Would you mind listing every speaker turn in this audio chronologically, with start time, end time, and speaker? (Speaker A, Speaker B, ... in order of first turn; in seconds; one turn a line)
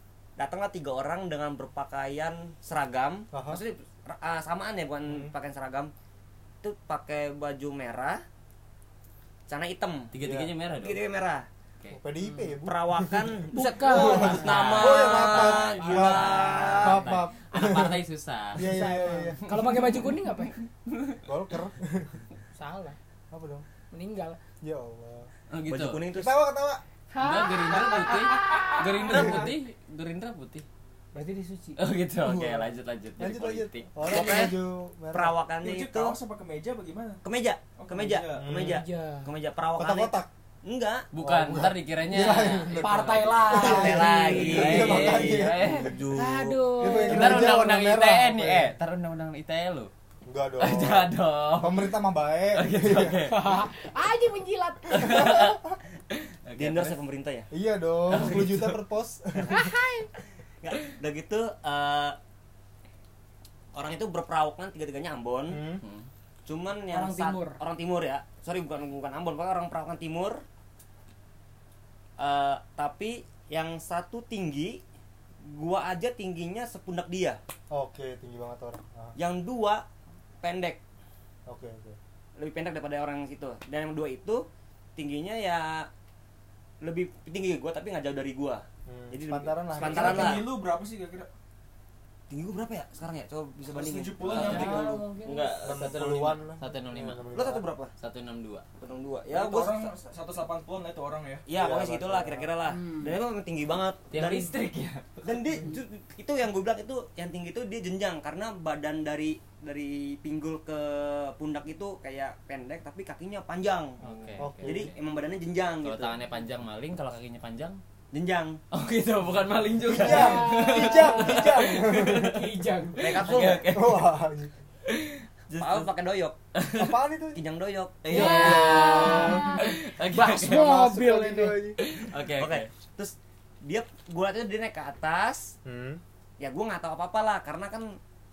Speaker A: 0.4-5.9
Speaker B: 3.3-3.6
Speaker A: 6.6-8.2
Speaker A: 9.5-10.1
Speaker C: 10.1-11.0
Speaker B: 10.2-10.5
Speaker A: 10.8-11.5
Speaker B: 11.9-18.0
Speaker D: 12.2-12.6
Speaker A: 12.6-17.1
Speaker D: 13.5-16.6
Speaker C: 14.0-21.2
Speaker B: 18.5-19.4
Speaker D: 18.6-20.6
Speaker B: 21.2-22.2
Speaker D: 22.6-23.0
Speaker B: 23.3-23.6
Speaker D: 23.9-24.4
Speaker B: 24.6-25.3
Speaker C: 25.5-26.0
Speaker A: 25.7-26.3
Speaker B: 26.1-26.8
Speaker D: 27.1-29.5
Speaker C: 27.2-30.6
Speaker E: 27.8-28.5
Speaker B: 29.1-29.5
Speaker D: 31.1-31.8
Speaker C: 31.8-34.2
Speaker B: 32.2-35.4
Speaker A: 34.0-34.5
Speaker A: 35.1-36.2
Speaker E: 35.6-37.2
Speaker A: 37.2-41.1
Speaker E: 37.8-38.5
Speaker B: 38.4-38.8
Speaker D: 38.6-39.3
Speaker B: 39.8-40.3
Speaker C: 41.1-43.7
Speaker B: 41.2-45.9
Speaker D: 42.3-45.2
Speaker A: 43.5-47.4
Speaker C: 44.5-46.0
Speaker D: 46.1-47.5
Speaker B: 46.8-48.8
Speaker C: 46.9-49.9
Speaker B: 50.3-53.3
Speaker C: 50.6-51.9
Speaker C: 52.5-53.6
Speaker D: 53.3-55.4
Speaker C: 54.9-57.0
Speaker B: 54.9-55.7
Speaker A: 56.6-57.5
Speaker B: 57.5-59.7
Speaker C: 58.1-58.8
Speaker A: 59.4-59.6
Speaker D: 59.5-60.1
Speaker A: 60.6-62.2
Speaker A: 63.7-65.6
Speaker B: 65.5-65.8
Speaker C: 65.8-66.1
Speaker A: 66.5-70.4
Speaker D: 66.9-67.6
Speaker A: 72.2-74.8
Speaker A: 75.4-77.4
Speaker B: 77.7-79.2
Speaker A: 79.2-79.8
Speaker A: 80.4-80.8
Speaker B: 81.5-82.0
Speaker A: 82.4-85.9
Speaker A: 86.8-90.5
Speaker B: 88.9-90.5
Speaker E: 89.7-91.3
Speaker A: 92.3-95.9
Speaker E: 93.7-95.0
Speaker C: 94.2-97.3
Speaker D: 94.3-95.5
Speaker B: 95.6-97.7
Speaker A: 97.3-97.9
Speaker C: 98.0-98.7
Speaker A: 98.8-99.9
Speaker E: 99.3-101.5
Speaker A: 101.5-104.5
Speaker B: 101.5-102.5
Speaker D: 102.7-103.2
Speaker C: 104.1-105.2
Speaker A: 105.2-114.0
Speaker C: 114.0-115.0
Speaker B: 114.4-114.9
Speaker A: 114.6-116.2
Speaker C: 115.8-117.8
Speaker A: 118.1-118.6
Speaker C: 118.7-124.1
Speaker B: 119.8-122.4
Speaker D: 119.9-123.5
Speaker A: 123.0-123.7
Speaker B: 123.7-124.5
Speaker C: 124.9-125.9
Speaker A: 125.5-126.4
Speaker C: 126.5-127.0
Speaker B: 126.8-127.4
Speaker A: 127.3-128.3
Speaker C: 128.0-130.8
Speaker B: 128.1-129.7
Speaker D: 128.1-131.6
Speaker B: 130.4-131.8
Speaker C: 131.8-132.7
Speaker A: 132.4-135.6
Speaker B: 135.7-136.0
Speaker A: 136.4-138.0